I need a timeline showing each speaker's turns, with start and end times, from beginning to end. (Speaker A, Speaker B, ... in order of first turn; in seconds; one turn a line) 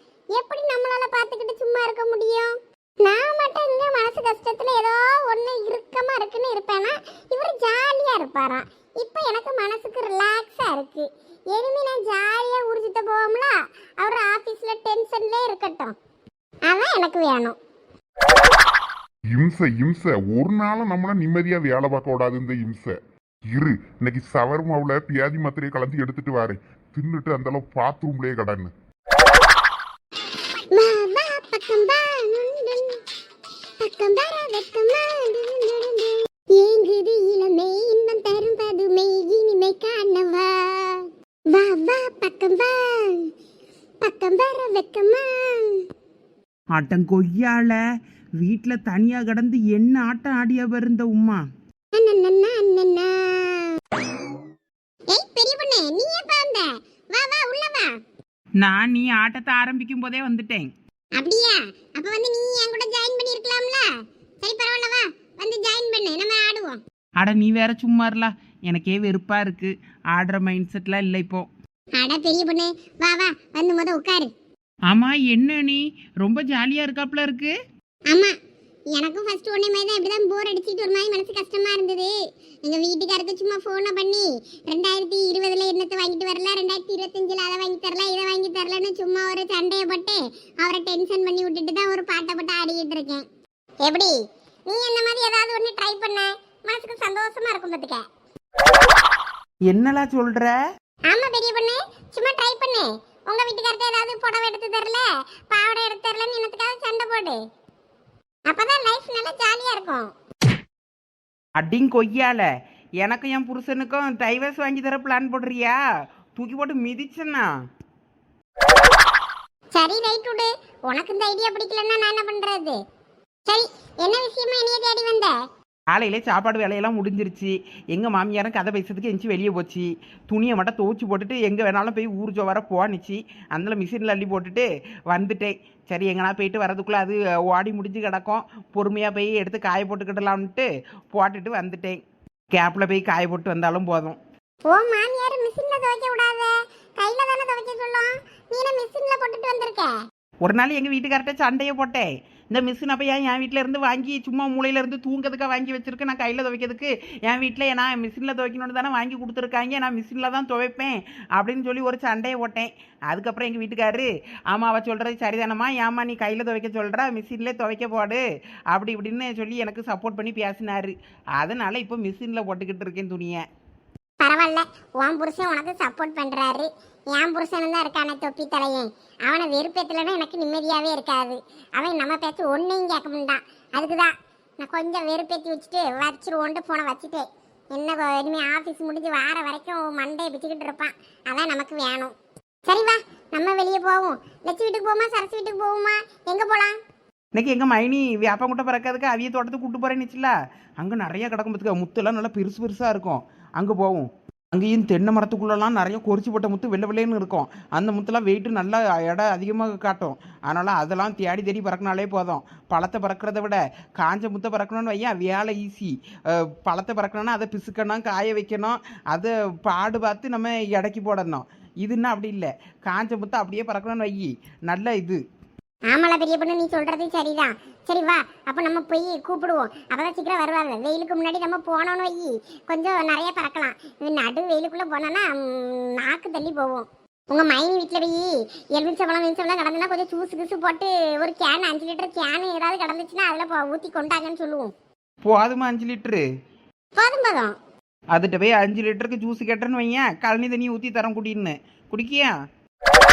Speaker A: 0.3-2.5
Speaker A: 3.0-15.9
Speaker A: 16.7-17.6
Speaker B: 19.3-22.9
Speaker B: 23.5-28.7
Speaker A: 30.7-33.0
Speaker A: 33.8-43.3
Speaker A: 44.0-45.8
Speaker C: 46.8-47.8
Speaker C: 48.4-51.4
Speaker A: 51.9-53.8
Speaker A: 55.1-57.9
Speaker C: 58.6-60.7
Speaker A: 61.2-63.9
Speaker A: 64.4-66.8
Speaker C: 67.2-71.5
Speaker A: 72.0-74.3
Speaker C: 74.9-77.5
Speaker A: 78.9-82.1
Speaker A: 82.7-93.2
Speaker A: 93.8-94.1
Speaker A: 94.7-98.0
Speaker C: 99.7-100.5
Speaker A: 101.1-107.4
Speaker A: 108.5-110.1
Speaker C: 111.6-112.5
Speaker C: 113.0-115.8
Speaker C: 116.4-117.5
Speaker A: 119.7-122.8
Speaker A: 123.5-125.3
Speaker C: 125.9-142.0
Speaker C: 142.5-144.2
Speaker A: 144.7-150.0
Speaker C: 150.4-173.4
Speaker A: 174.2-192.1
Speaker A: 192.7-196.8
Speaker C: 197.3-225.2
Speaker A: 225.9-244.7
Speaker C: 245.2-246.2
Speaker A: 247.0-247.6
Speaker C: 248.1-252.3